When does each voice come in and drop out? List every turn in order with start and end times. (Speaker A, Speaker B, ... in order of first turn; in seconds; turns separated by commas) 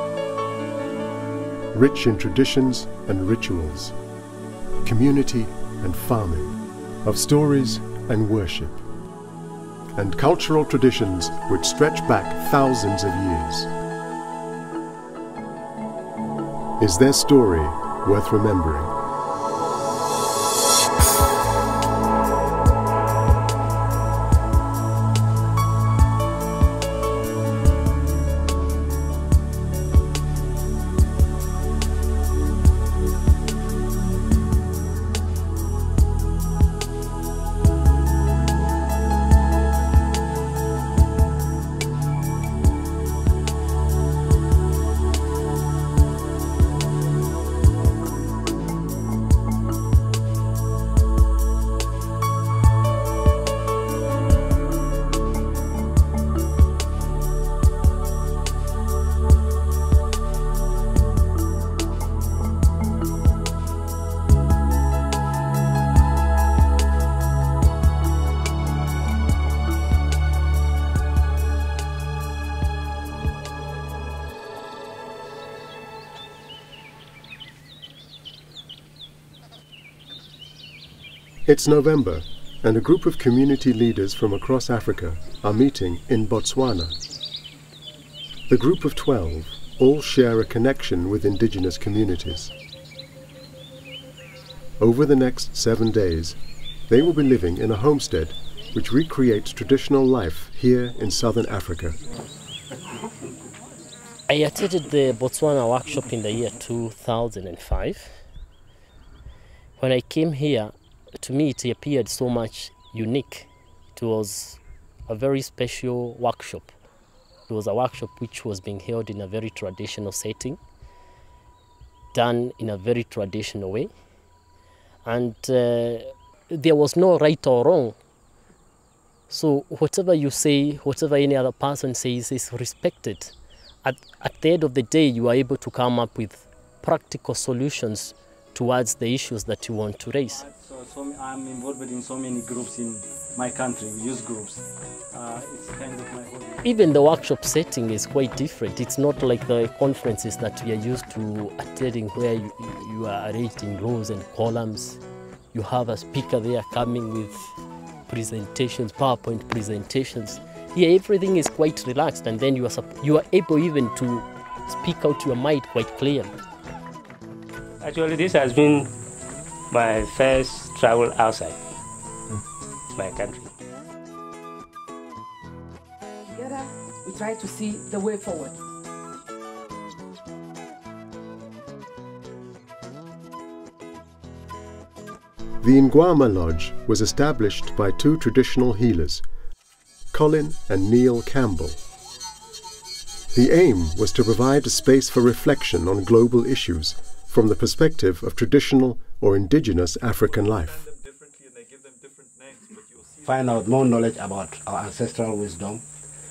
Speaker A: 1.7-3.9, Speaker A: 4.8-6.5, Speaker A: 7.0-8.8, Speaker A: 9.9-13.7, Speaker A: 16.8-18.9, Speaker A: 81.5-86.9, Speaker A: 88.5-92.5, Speaker A: 94.8-96.4, Speaker A: 96.9-102.0, Speaker B: 104.3-108.1, Speaker B: 109.8-116.7, Speaker B: 117.5-120.6, Speaker B: 122.1-123.9, Speaker B: 125.0-127.9, Speaker B: 129.3-140.4, Speaker C: 140.4-146.6, Speaker B: 146.6-155.0, Speaker B: 155.5-157.6, Speaker B: 158.1-166.3, Speaker D: 167.8-168.9, Speaker D: 169.7-171.6, Speaker D: 172.9-173.5, Speaker E: 176.3-178.5, Speaker A: 185.6-189.2, Speaker A: 190.1-191.8, Speaker A: 193.3-200.9, Speaker F: 203.2-205.8